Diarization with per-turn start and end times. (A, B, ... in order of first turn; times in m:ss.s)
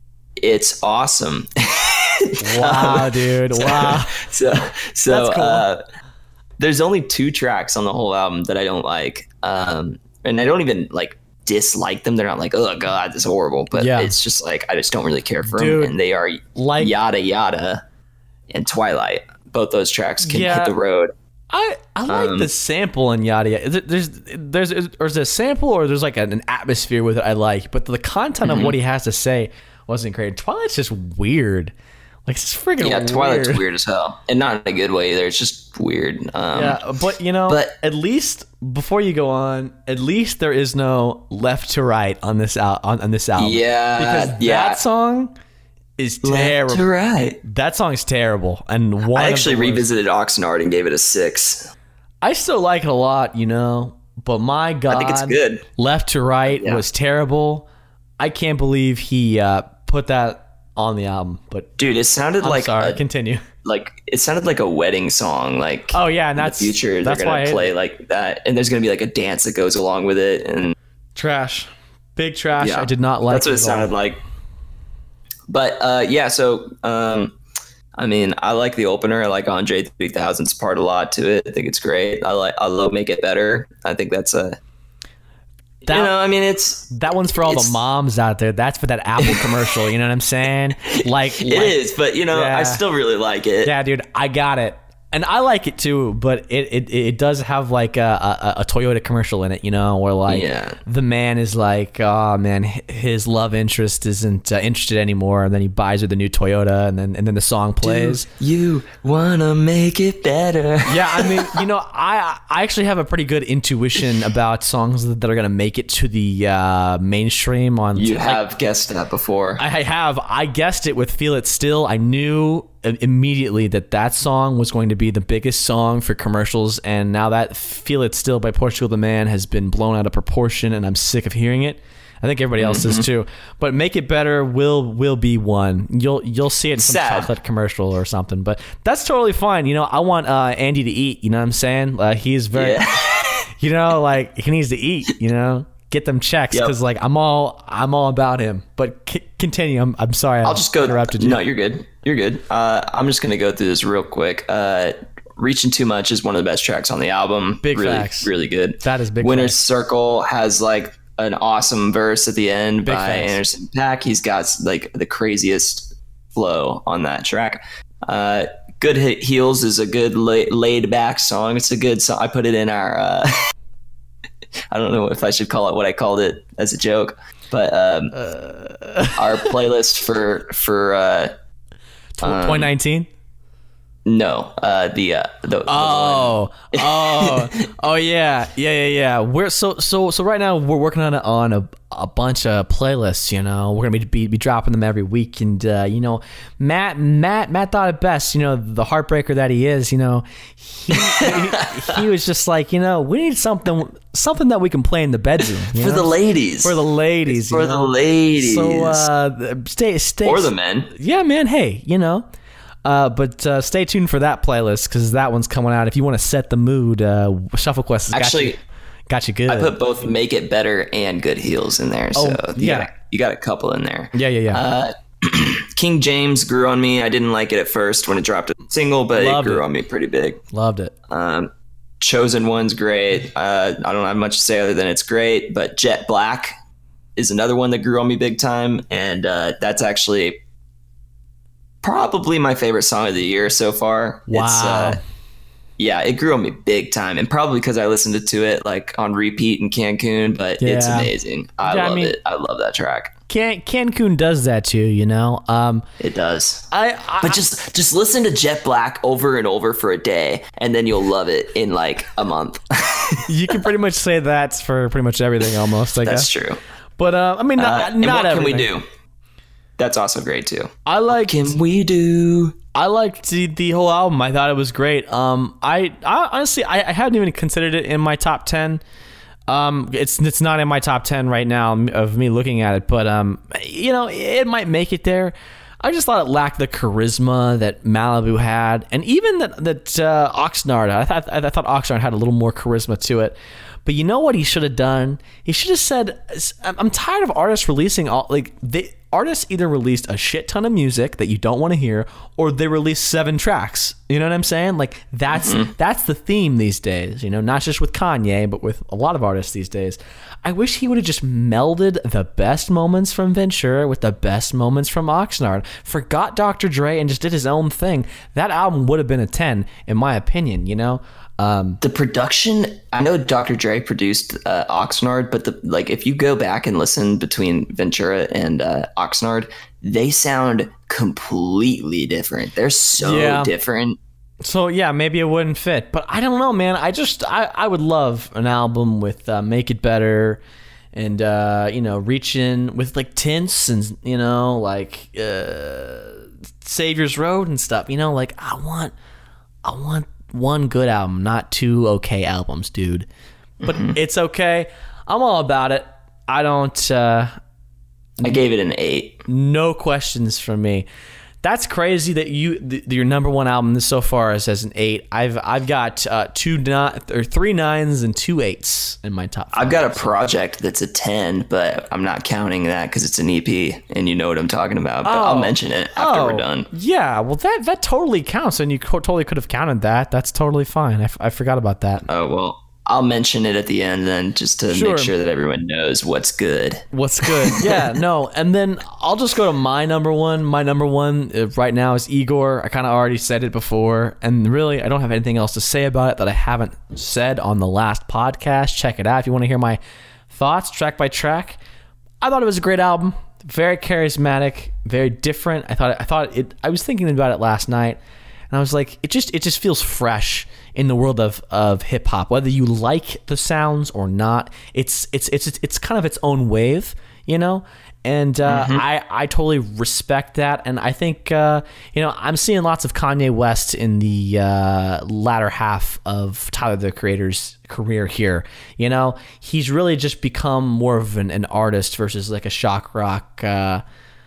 0:00.4-0:05.8 A
0:02.4-0:04.2 B
0:05.1-0:05.7 B
0:06.6-0:17.8 A
0:13.7-0:14.2 B
0:15.4-0:15.9 B
0:16.6-0:16.9 B
0:18.5-0:21.1 A
0:20.2-0:20.8 B
0:21.5-0:31.7 B
0:22.1-0:22.5 A
0:28.4-0:28.8 A
0:32.3-0:33.6 B
0:32.8-0:36.8 A
0:36.5-0:45.4 B
0:37.5-0:37.7 A
0:43.4-0:44.8 A
0:46.0-0:46.8 B
0:46.2-0:47.4 A
0:47.4-0:49.9 B
0:49.1-0:51.7 A
0:52.2-0:57.7 B
0:54.9-0:55.6 A
0:56.5-0:56.8 A
0:58.2-1:01.7 B
1:01.8-1:03.0 A
1:02.4-1:03.4 B
1:03.6-1:10.8 A
1:05.9-1:07.7 B
1:11.2-1:13.9 B
1:12.6-1:14.2 A
1:15.5-1:17.4 A
1:18.0-1:24.6 A
1:25.8-1:26.1 B
1:25.9-1:27.8 A
1:26.9-1:31.8 B
1:29.2-1:29.7 A
1:30.8-1:33.7 A
1:32.3-1:32.8 B
1:33.6-1:48.3 B
1:40.3-1:40.8 A
1:47.8-1:51.6 A
1:50.9-1:58.4 B
1:58.0-1:59.6 A
1:59.6-2:22.9 B
2:12.6-2:13.1 A
2:16.8-2:17.3 A
2:22.5-2:23.4 A
2:23.4-2:31.4 B
2:30.4-2:53.5 A
2:37.6-2:38.3 B
2:38.8-2:39.6 B
2:42.9-2:43.4 B
2:54.7-2:58.2 A
2:58.1-2:59.5 B
2:59.2-3:01.3 A
3:02.2-3:03.1 B
3:02.2-3:02.7 A
3:04.1-3:07.7 A
3:05.7-3:26.1 B
3:20.9-3:22.0 A
3:25.7-3:29.1 A
3:26.6-3:32.2 B
3:30.2-3:30.9 A
3:32.8-3:38.6 B
3:38.1-3:38.6 A
3:39.1-3:39.7 B
3:39.5-3:50.4 A
3:42.2-3:42.9 B
3:44.1-3:44.6 B
3:49.1-3:49.6 B
3:50.5-3:50.9 B
3:51.1-3:56.5 A
3:57.2-4:00.4 A
4:01.8-4:05.0 A
4:04.3-4:05.0 B
4:05.8-4:13.1 A
4:10.6-4:11.1 B
4:11.6-4:12.2 B
4:13.3-4:15.8 B
4:16.0-4:16.7 A
4:16.7-4:17.4 B
4:17.2-4:23.6 A
4:23.3-4:26.3 B
4:25.9-4:26.6 A
4:27.0-4:28.7 B
4:27.6-4:28.8 A
4:29.8-4:32.6 A
4:30.9-4:31.5 B
4:32.8-4:38.8 B
4:39.5-5:21.8 B
5:05.3-5:05.7 A
5:21.8-5:34.0 A
5:33.0-5:33.5 B
5:34.4-5:40.4 B
5:40.9-5:48.9 B
5:49.6-5:53.1 B
5:53.6-5:54.0 A
5:53.6-5:57.3 B
5:58.2-5:59.2 A
5:59.3-6:00.9 B
6:01.4-6:10.0 B
6:09.5-6:16.7 A
6:15.0-6:22.0 B
6:22.1-6:27.9 A
6:24.7-6:25.1 B
6:26.9-6:41.6 B
6:42.2-6:48.0 B
6:48.5-7:13.8 B
6:58.5-6:58.8 A